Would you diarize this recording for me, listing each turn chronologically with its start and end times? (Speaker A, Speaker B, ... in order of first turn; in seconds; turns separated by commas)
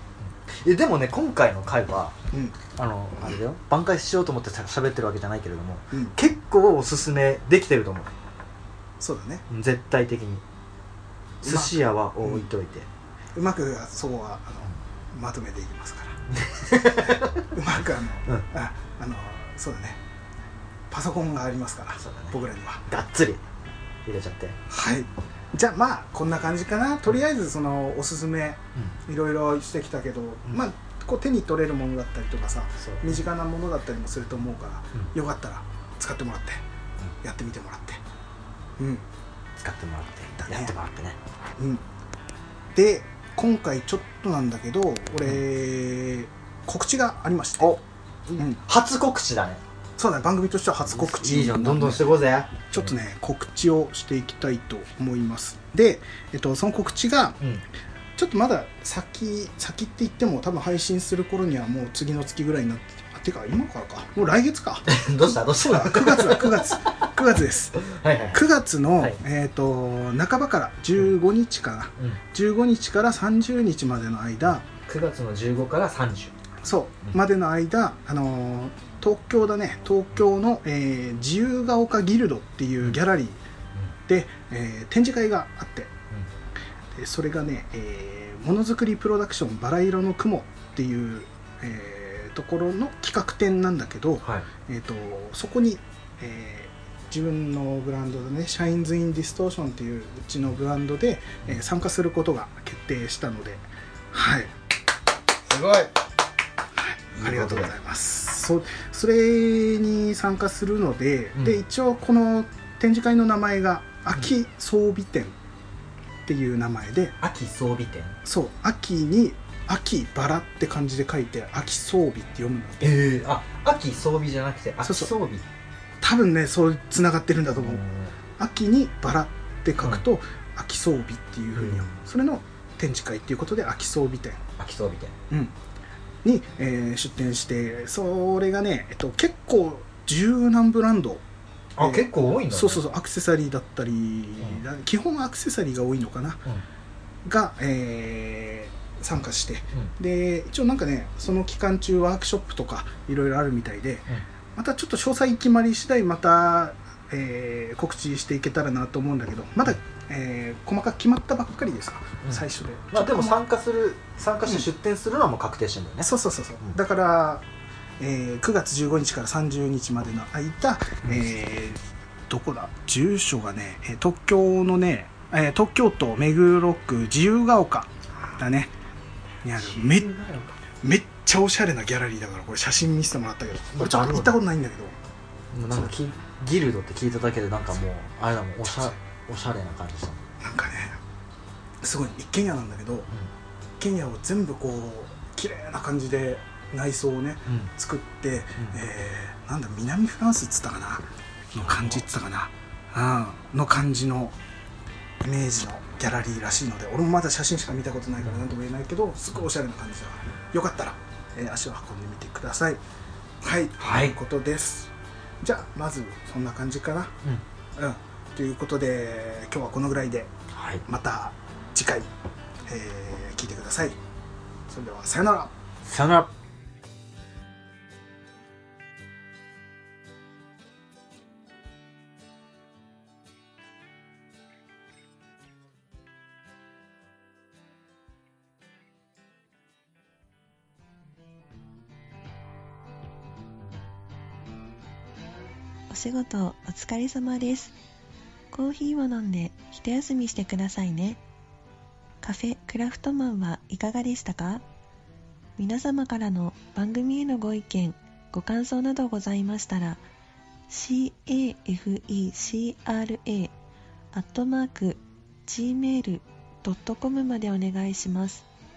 Speaker A: 0.5-2.1, Speaker B: 2.3-2.6, Speaker A: 2.8-8.1, Speaker B: 9.0-9.4, Speaker A: 9.5-10.4, Speaker A: 11.4-12.9, Speaker B: 11.4-12.5, Speaker B: 13.3-16.2, Speaker A: 16.3-17.6, Speaker B: 17.0-20.0, Speaker B: 20.9-22.8, Speaker A: 22.0-23.4, Speaker A: 24.0-24.6, Speaker B: 24.7-36.6, Speaker A: 32.8-33.2, Speaker B: 37.2-38.0, Speaker B: 38.8-39.1, Speaker A: 39.6-41.2, Speaker B: 40.4-40.7, Speaker B: 41.6-41.8, Speaker B: 42.7-47.8, Speaker A: 47.6-49.6, Speaker B: 50.0-57.4, Speaker A: 50.9-52.9, Speaker A: 57.4-57.6, Speaker B: 58.2-67.8, Speaker A: 64.9-66.7, Speaker A: 67.8-69.2, Speaker B: 68.3-74.7, Speaker A: 74.8-76.3, Speaker B: 76.6-83.4, Speaker B: 84.1-85.9, Speaker B: 86.9-104.5, Speaker B: 105.5-105.9, Speaker B: 106.7-115.3, Speaker A: 107.1-107.7, Speaker B: 116.2-117.2, Speaker A: 117.2-118.2, Speaker B: 118.2-123.0, Speaker A: 122.8-125.5, Speaker B: 124.8-125.1, Speaker B: 126.0-127.8, Speaker A: 127.5-128.1, Speaker B: 128.4-134.4, Speaker A: 129.8-130.0, Speaker A: 131.6-132.0, Speaker A: 134.6-135.1, Speaker B: 135.3-135.5, Speaker B: 136.2-141.2, Speaker A: 141.8-142.8, Speaker B: 141.8-146.4, Speaker B: 147.2-163.4, Speaker A: 162.2-166.8, Speaker B: 166.0-167.4, Speaker B: 168.0-178.7, Speaker B: 179.4-180.1, Speaker A: 179.5-180.6, Speaker B: 180.8-185.0, Speaker A: 183.7-184.4, Speaker A: 185.5-190.2, Speaker B: 188.6-188.9, Speaker B: 190.4-191.0, Speaker B: 191.8-193.1, Speaker B: 193.8-204.3, Speaker A: 201.5-202.1, Speaker B: 205.2-212.8, Speaker B: 213.4-214.9, Speaker A: 213.8-214.2, Speaker B: 215.4-217.1, Speaker B: 217.8-220.3, Speaker A: 220.5-220.8, Speaker B: 220.9-222.1, Speaker B: 222.7-224.0, Speaker B: 224.7-225.5, Speaker A: 225.8-226.3, Speaker C: 245.9-247.7, Speaker C: 248.5-251.2, Speaker C: 252.2-254.6, Speaker C: 255.6-260.0, Speaker C: 260.7-263.5, Speaker C: 264.1-268.4